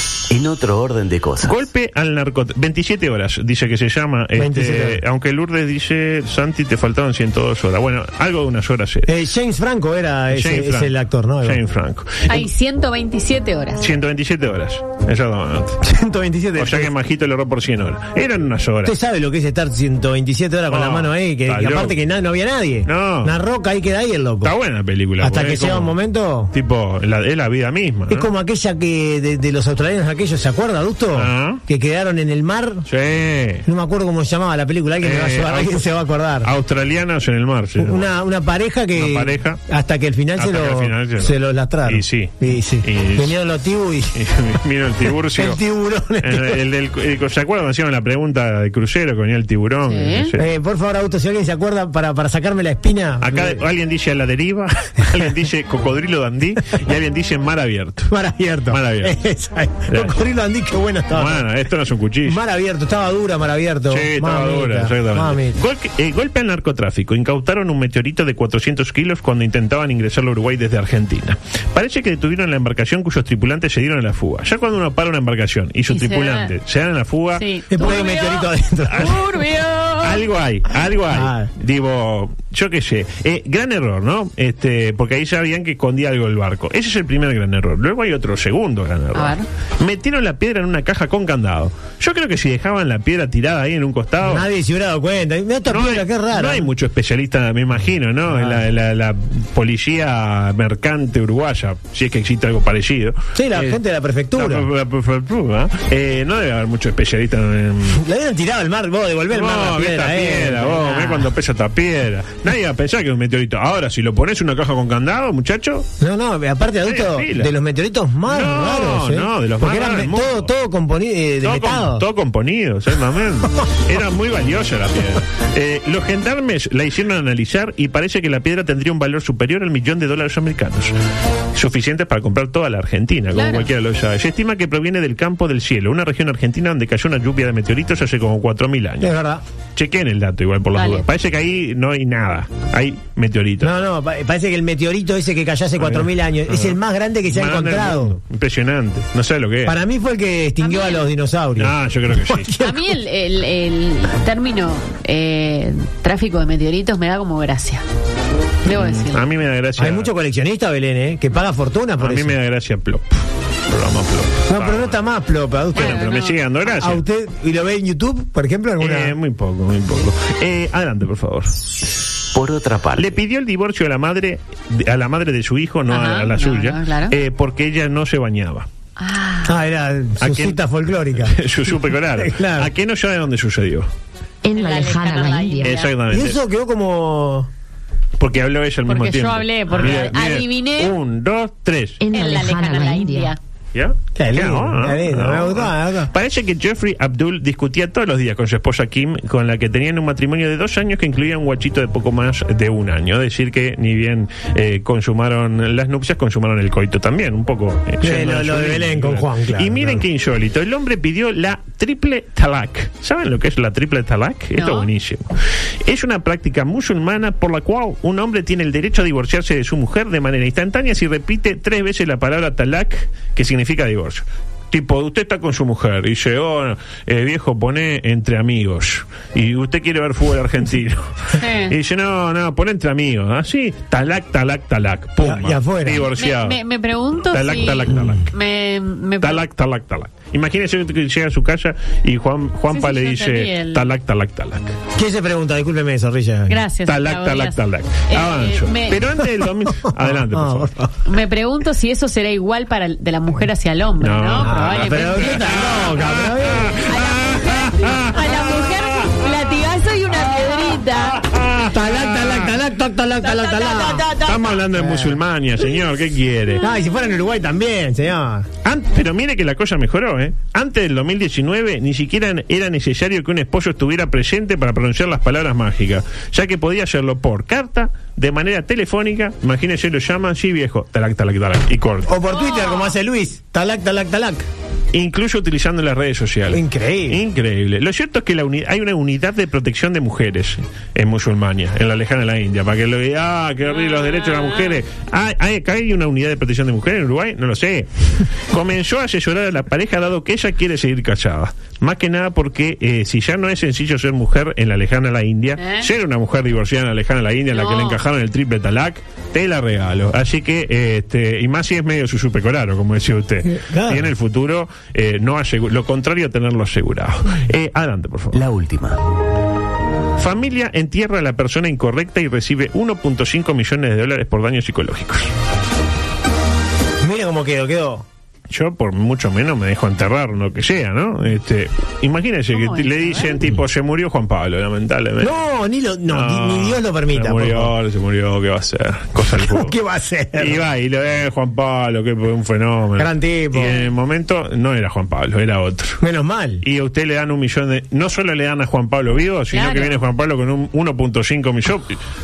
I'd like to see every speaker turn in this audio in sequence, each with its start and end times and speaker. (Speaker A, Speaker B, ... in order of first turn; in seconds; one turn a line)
Speaker A: 0.3-1.6
Speaker B: 1.4-9.1
Speaker C: 4.3-5.0
Speaker C: 9.1-11.6
Speaker B: 10.3-10.9
Speaker B: 11.4-12.4
Speaker D: 12.3-13.8
Speaker B: 13.8-15.8
Speaker C: 15.8-16.9
Speaker B: 16.6-18.9
Speaker C: 18.8-24.5
Speaker B: 20.7-21.9
Speaker B: 22.9-23.3
Speaker B: 24.4-25.9
Speaker C: 25.2-26.5
Speaker B: 26.5-28.3
Speaker C: 28.1-32.9
Speaker B: 31.1-31.6
Speaker B: 32.9-33.6
Speaker C: 33.6-36.5
Speaker B: 35.0-35.8
Speaker B: 36.4-38.1
Speaker C: 37.8-44.2
Speaker B: 39.0-39.6
Speaker B: 40.4-41.3
Speaker B: 41.9-42.3
Speaker B: 42.8-43.3
Speaker B: 44.1-45.6
Speaker C: 45.2-46.6
Speaker B: 46.2-50.4
Speaker D: 49.8-50.3
Speaker C: 50.4-53.6
Speaker B: 53.2-58.1
Speaker C: 58.1-61.5
Speaker B: 58.7-59.1
Speaker B: 61.1-62.4
Speaker C: 62.2-65.6
Speaker B: 63.9-77.4
Speaker D: 75.9-76.5
Speaker D: 77.3-80.2
Speaker C: 77.7-79.2
Speaker B: 80.0-94.5
Speaker C: 81.0-81.5
Speaker D: 89.1-89.5
Speaker C: 94.2-96.7
Speaker B: 95.7-103.8
Speaker C: 98.3-98.6
Speaker C: 103.3-104.7
Speaker B: 104.3-108.0
Speaker C: 107.9-111.3
Speaker B: 109.3-115.8
Speaker C: 116.0-122.0
Speaker B: 116.8-117.5
Speaker B: 118.3-120.5
Speaker B: 121.4-130.9
Speaker B: 131.5-139.1
Speaker D: 133.3-133.7
Speaker C: 139.0-139.4
Speaker B: 139.8-143.7
Speaker D: 140.7-141.1
Speaker C: 143.6-148.2
Speaker B: 145.8-146.8
Speaker B: 147.3-149.8
Speaker C: 149.6-152.9
Speaker D: 150.6-151.0
Speaker B: 151.6-152.5
Speaker D: 152.6-157.8
Speaker D: 158.7-159.3
Speaker B: 158.7-160.1
Speaker C: 159.8-162.3
Speaker B: 162.0-163.2
Speaker B: 163.7-164.9
Speaker C: 164.5-166.1
Speaker D: 165.7-166.4
Speaker B: 165.7-167.0
Speaker C: 166.7-169.2
Speaker B: 168.8-171.5
Speaker A: 172.3-173.2
Speaker B: 172.9-178.7
Speaker D: 175.9-177.1
Speaker D: 179.0-179.5
Speaker C: 179.4-182.7
Speaker B: 180.2-180.6
Speaker B: 181.2-183.9
Speaker E: 184.4-185.9
Speaker D: 184.5-185.9
Speaker B: 185.6-186.4
Speaker C: 186.1-187.5
Speaker B: 188.2-192.0
Speaker D: 188.8-190.9
Speaker E: 192.0-193.3
Speaker D: 192.1-193.4
Speaker B: 193.7-215.2
Speaker C: 194.2-196.1
Speaker C: 208.0-210.1
Speaker D: 214.5-214.9
Speaker B: 215.8-231.1
Speaker D: 231.4-231.7
Speaker B: 231.7-236.6
Speaker C: 235.2-236.0
Speaker D: 235.9-239.4
Speaker B: 237.3-238.3
Speaker B: 239.2-244.8
Speaker D: 242.7-243.9
Speaker C: 244.9-246.6
Speaker D: 246.5-249.0
Speaker B: 246.8-250.7
Speaker C: 249.8-250.9
Speaker D: 251.1-255.4
Speaker B: 254.0-259.0
Speaker C: 254.4-256.8
Speaker D: 256.9-261.2
Speaker B: 260.9-262.5
Speaker C: 261.7-264.1
Speaker D: 263.2-264.6
Speaker B: 264.2-266.6
Speaker C: 264.6-265.2
Speaker C: 266.6-268.5
Speaker B: 268.6-282.1
Speaker C: 282.1-284.4
Speaker D: 282.3-282.9
Speaker B: 284.9-297.9
Speaker C: 286.5-287.2
Speaker D: 293.7-294.8
Speaker B: 298.5-318.4
Speaker D: 305.6-305.9
Speaker D: 307.5-308.0
Speaker C: 313.5-314.1
Speaker A: 318.3-319.0
Speaker B: 320.2-325.3
Speaker C: 327.0-328.0
Speaker B: 328.5-335.3
Speaker D: 332.5-333.4
Speaker C: 335.2-337.7
Speaker B: 336.1-339.7
Speaker C: 339.2-340.6
Speaker B: 340.4-346.0
Speaker C: 342.9-343.8
Speaker D: 343.6-343.9
Speaker C: 346.0-346.6
Speaker B: 346.6-351.9
Speaker D: 349.5-350.0